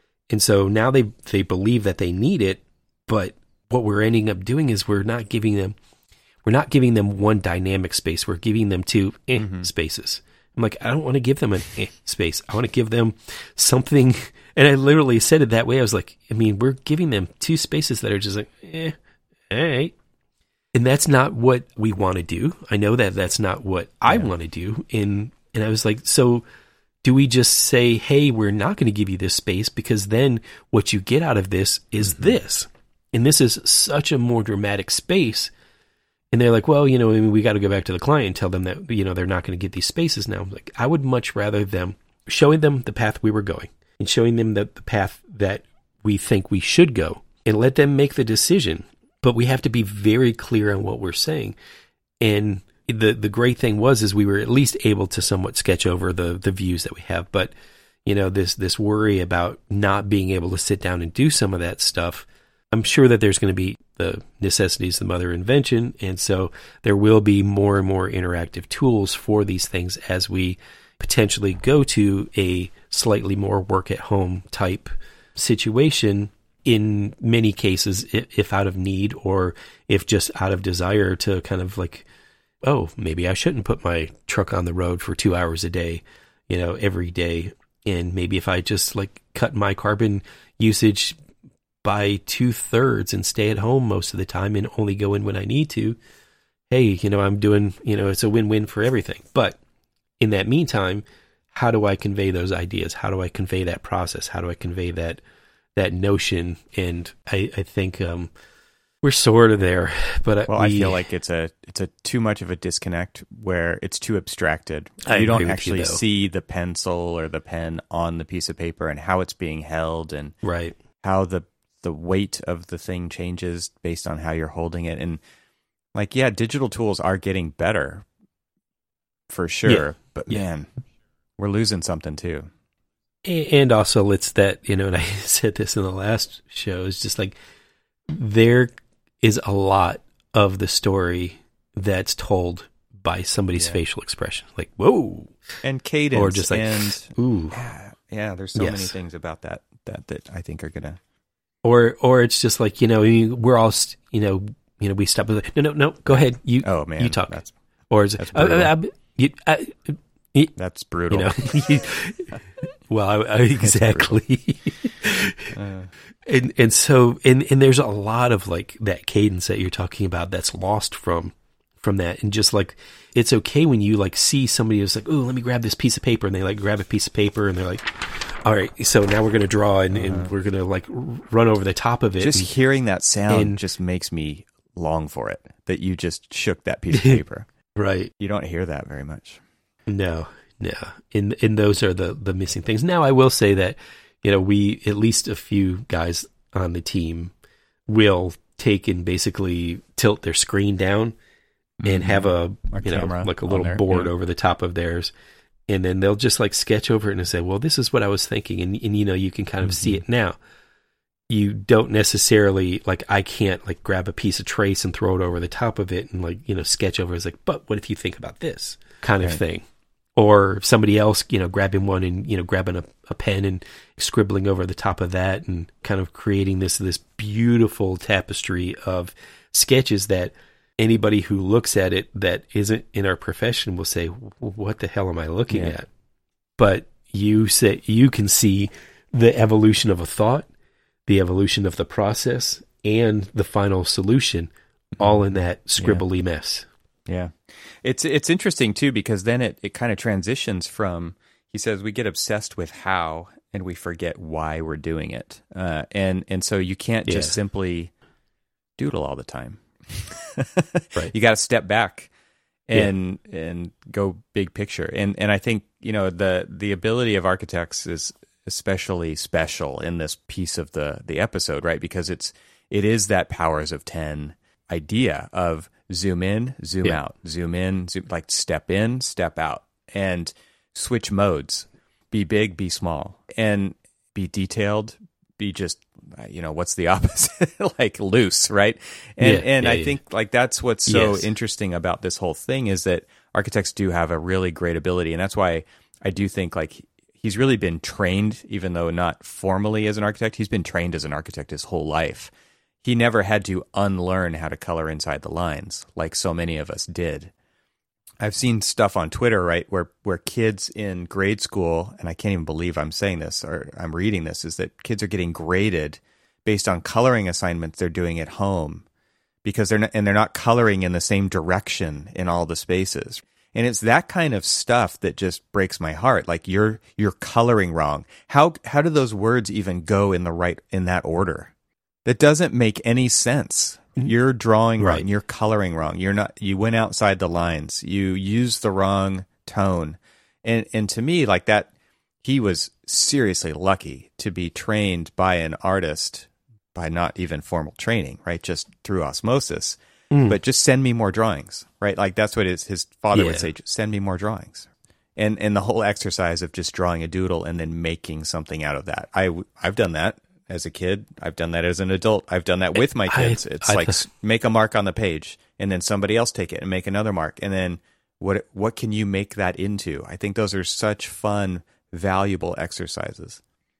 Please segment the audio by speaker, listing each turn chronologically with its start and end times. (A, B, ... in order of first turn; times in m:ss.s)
0:00.3-0:05.8 A
0:06.4-0:19.0 A
0:09.4-0:09.7 B
0:19.5-0:19.9 A
0:20.7-0:26.4 A
0:27.0-0:35.5 A
0:32.0-0:32.3 B
0:36.3-0:51.6 A
0:52.2-0:57.5 A
0:58.0-1:22.1 A
1:22.6-1:31.2 A
1:31.8-1:36.0 A
1:36.7-1:39.6 A
1:40.2-1:45.2 A
1:45.8-1:48.3 A
1:49.0-1:51.0 A
1:50.5-2:00.4 B
1:55.0-1:56.0 A
2:00.4-2:00.8 A
2:01.0-2:05.2 B
2:06.0-2:08.1 B
2:09.3-2:10.7 B
2:09.7-2:10.4 A
2:11.4-2:12.5 B
2:13.2-2:17.4 A
2:18.1-2:18.7 A
2:19.2-2:25.4 A
2:23.6-2:23.8 B
2:25.6-2:31.0 B
2:26.1-2:27.6 A
2:28.6-2:29.0 A
2:31.6-2:40.5 A
2:36.6-2:37.5 B
2:38.2-2:38.7 B
2:40.6-2:41.7 B
2:41.1-2:45.6 A
2:43.6-2:44.2 B
2:45.5-2:45.9 B
2:46.2-3:02.5 A
2:59.9-3:00.3 B
3:02.2-3:07.5 B
3:03.3-3:03.6 A
3:06.9-3:07.2 A
3:07.8-3:08.1 A
3:08.2-3:09.4 B
3:09.9-3:17.3 A
3:17.9-3:21.2 A
3:21.8-3:24.1 B
3:21.8-3:25.1 A
3:25.7-3:30.4 A
3:29.6-3:30.0 B
3:31.3-3:39.6 A
3:40.2-3:55.9 A
3:55.5-3:55.8 B
3:56.6-4:00.5 A
4:01.1-4:06.7 A
4:05.0-4:06.0 B
4:07.1-4:17.9 B
4:17.1-4:17.4 A
4:18.8-4:22.1 B
4:22.7-5:02.3 B
4:49.2-4:50.0 A
4:50.9-4:51.3 A
5:02.8-5:07.3 B
5:08.2-5:18.8 B
5:19.4-5:31.5 B
5:32.0-5:41.7 B
5:34.8-5:35.1 A
5:42.2-6:13.4 B
5:50.1-5:50.4 A
5:53.1-5:53.5 A
6:03.1-6:04.0 A